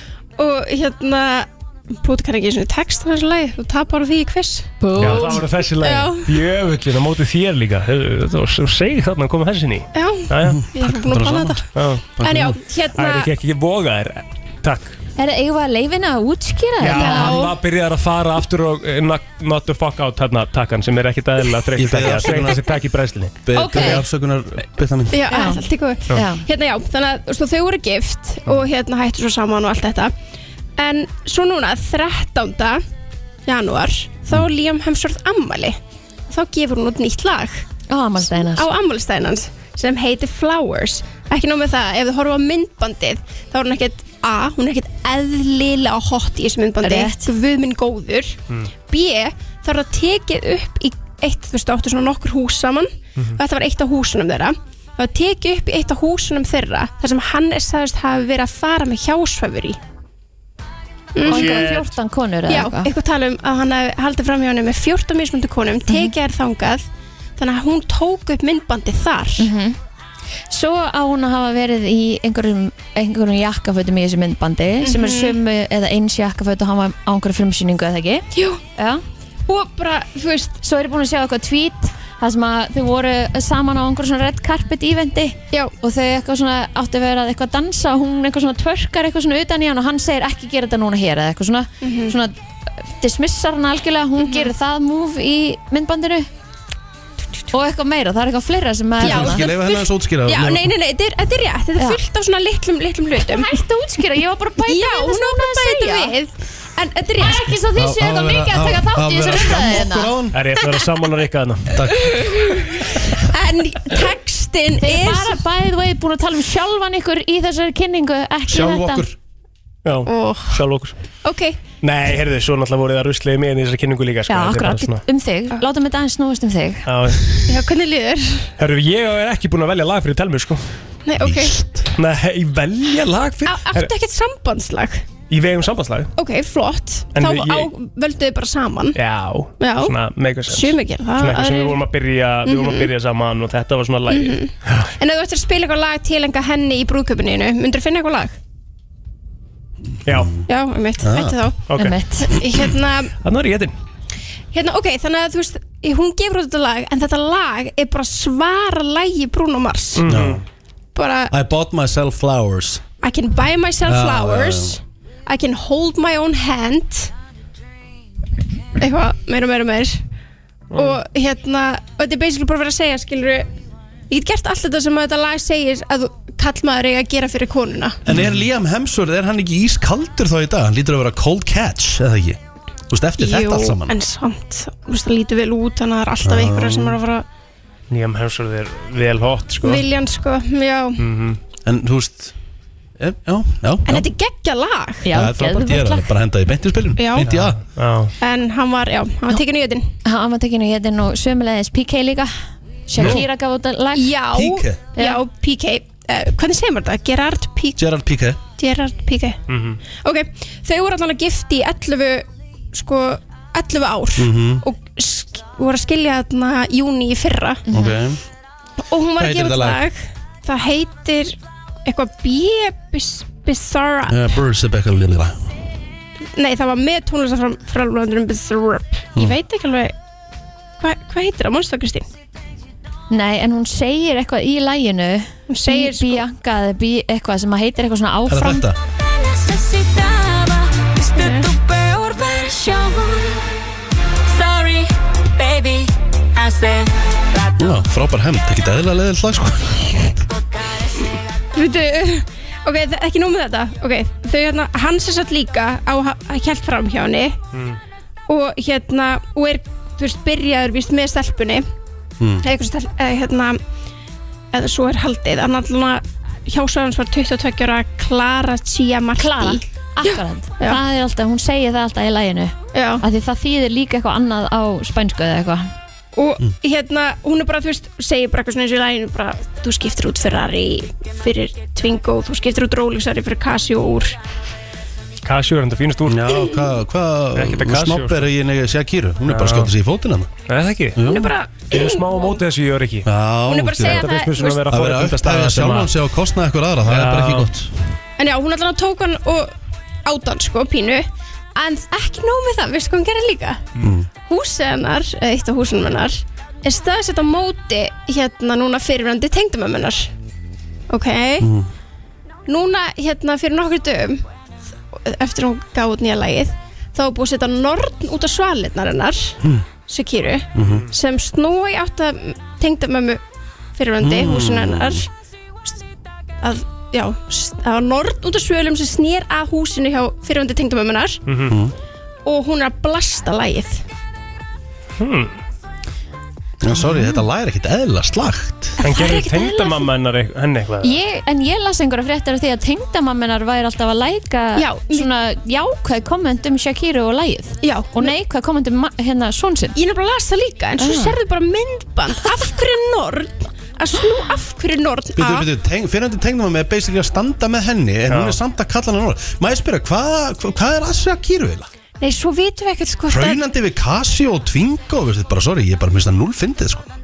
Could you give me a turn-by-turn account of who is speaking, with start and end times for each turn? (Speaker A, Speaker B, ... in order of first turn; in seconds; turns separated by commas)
Speaker A: 0.4-6.4, Speaker B: 4.8-5.4, Speaker C: 5.0-10.6, Speaker A: 9.9-11.7, Speaker D: 10.4-11.6, Speaker C: 11.7-12.2, Speaker D: 12.2-12.6, Speaker A: 12.2-13.3, Speaker C: 12.9-15.0, Speaker B: 15.2-17.4, Speaker C: 16.8-24.0, Speaker A: 16.9-17.6, Speaker D: 21.8-22.7, Speaker D: 23.4-25.3, Speaker A: 23.5-24.0, Speaker A: 25.1-30.1, Speaker B: 25.3-26.4, Speaker A: 30.8-32.8, Speaker A: 33.5-35.8, Speaker A: 36.3-37.6, Speaker B: 37.9-38.7, Speaker A: 38.2-59.8, Speaker B: 46.8-47.3, Speaker A: 61.1-61.6, Speaker C: 61.2-61.9, Speaker B: 61.2-62.9, Speaker A: 62.5-66.8, Speaker B: 65.9-66.1, Speaker A: 67.4-69.5, Speaker B: 69.4-69.8, Speaker B: 70.5-79.0, Speaker A: 74.8-75.4, Speaker A: 78.3-78.6, Speaker A: 79.5-80.6, Speaker B: 80.6-96.3, Speaker A: 91.8-92.2, Speaker A: 94.2-94.5, Speaker B: 97.5-99.5, Speaker A: 99.0-103.5, Speaker D: 99.0-100.7, Speaker B: 103.2-106.2, Speaker A: 104.7-107.5, Speaker B: 107.2-110.1, Speaker D: 107.7-110.4, Speaker C: 110.3-111.7, Speaker D: 111.7-112.3, Speaker A: 111.9-115.4, Speaker B: 114.8-119.0, Speaker D: 118.5-119.2, Speaker C: 119.8-121.0, Speaker A: 120.0-120.6, Speaker A: 121.2-121.6, Speaker C: 121.8-125.0, Speaker B: 124.3-126.9, Speaker C: 126.8-127.4, Speaker A: 127.5-128.5, Speaker C: 128.6-130.6, Speaker A: 131.0-131.6, Speaker D: 131.2-131.9, Speaker C: 131.9-133.9, Speaker A: 133.4-135.1, Speaker C: 135.3-136.1, Speaker A: 136.2-139.0, Speaker C: 137.1-137.7, Speaker C: 138.9-144.9, Speaker A: 139.6-141.8, Speaker A: 142.4-142.9, Speaker A: 144.1-148.3, Speaker C: 150.1-150.4, Speaker D: 150.1-150.4, Speaker A: 150.5-151.7, Speaker D: 151.0-151.4, Speaker C: 151.7-152.0, Speaker B: 151.8-152.3, Speaker A: 152.2-153.1, Speaker C: 153.2-153.7, Speaker A: 154.5-160.1, Speaker C: 159.9-160.4, Speaker D: 160.1-160.4, Speaker A: 160.9-161.3, Speaker D: 161.3-162.8, Speaker A: 163.0-167.1, Speaker D: 163.8-164.8, Speaker A: 168.8-170.0, Speaker C: 170.7-171.0, Speaker A: 170.7-173.5, Speaker A: 174.1-178.0, Speaker D: 178.1-184.0, Speaker A: 183.2-187.2, Speaker D: 186.2-187.0, Speaker C: 187.9-189.9, Speaker A: 189.6-191.0, Speaker C: 191.0-191.4, Speaker D: 191.7-192.3, Speaker D: 193.0-194.1, Speaker A: 193.8-195.1, Speaker B: 195.0-196.1, Speaker D: 195.1-197.6, Speaker A: 197.0-197.3, Speaker C: 197.2-198.1, Speaker A: 198.2-199.8, Speaker B: 200.0-202.3, Speaker B: 202.9-204.2, Speaker C: 203.0-203.2, Speaker A: 203.9-207.8, Speaker D: 204.3-204.8, Speaker B: 205.0-205.2, Speaker D: 207.8-208.4, Speaker A: 208.6-209.4, Speaker C: 209.5-209.8, Speaker A: 209.9-217.6, Speaker D: 214.2-214.6, Speaker B: 217.7-218.0, Speaker D: 217.7-218.2, Speaker A: 218.8-224.3, Speaker D: 219.2-219.8, Speaker D: 224.1-225.4, Speaker A: 226.3-229.9, Speaker A: 230.8-232.1, Speaker B: 233.1-238.6, Speaker A: 235.5-236.2, Speaker D: 238.3-238.8, Speaker E: 238.9-243.5, Speaker A: 241.1-241.5, Speaker E: 244.3-247.8, Speaker D: 247.6-249.9, Speaker E: 250.3-251.2, Speaker A: 251.0-257.4, Speaker C: 257.5-257.8, Speaker A: 258.3-261.6, Speaker D: 262.2-262.4, Speaker A: 262.4-263.6, Speaker A: 264.5-270.8, Speaker B: 269.2-275.7, Speaker A: 272.7-273.0, Speaker A: 276.1-284.1, Speaker C: 285.2-286.4, Speaker D: 286.1-290.3, Speaker C: 287.3-288.3, Speaker C: 289.3-289.7, Speaker C: 290.5-291.0, Speaker D: 290.9-291.3, Speaker A: 291.0-292.4, Speaker C: 291.6-293.1, Speaker D: 293.0-297.7, Speaker A: 293.5-294.7, Speaker C: 293.7-295.9, Speaker C: 296.9-297.5, Speaker A: 298.2-299.5, Speaker A: 300.1-303.7, Speaker D: 303.8-304.1, Speaker A: 304.2-310.1, Speaker A: 310.9-311.5, Speaker D: 311.4-311.7, Speaker A: 312.5-314.2, Speaker A: 314.9-323.2, Speaker D: 320.5-320.9, Speaker A: 323.7-325.1, Speaker D: 324.0-325.0, Speaker A: 326.4-331.2, Speaker C: 331.3-331.6, Speaker D: 331.5-331.7, Speaker A: 332.2-333.8, Speaker C: 335.0-335.4, Speaker D: 336.6-338.8, Speaker B: 336.7-337.2, Speaker A: 338.8-339.9, Speaker C: 338.8-340.9, Speaker B: 340.8-349.8, Speaker A: 344.6-345.1, Speaker A: 347.6-348.1, Speaker A: 349.7-355.5, Speaker B: 350.8-351.1, Speaker D: 355.1-361.7, Speaker C: 358.1-358.4, Speaker A: 362.0-363.4, Speaker D: 363.1-366.9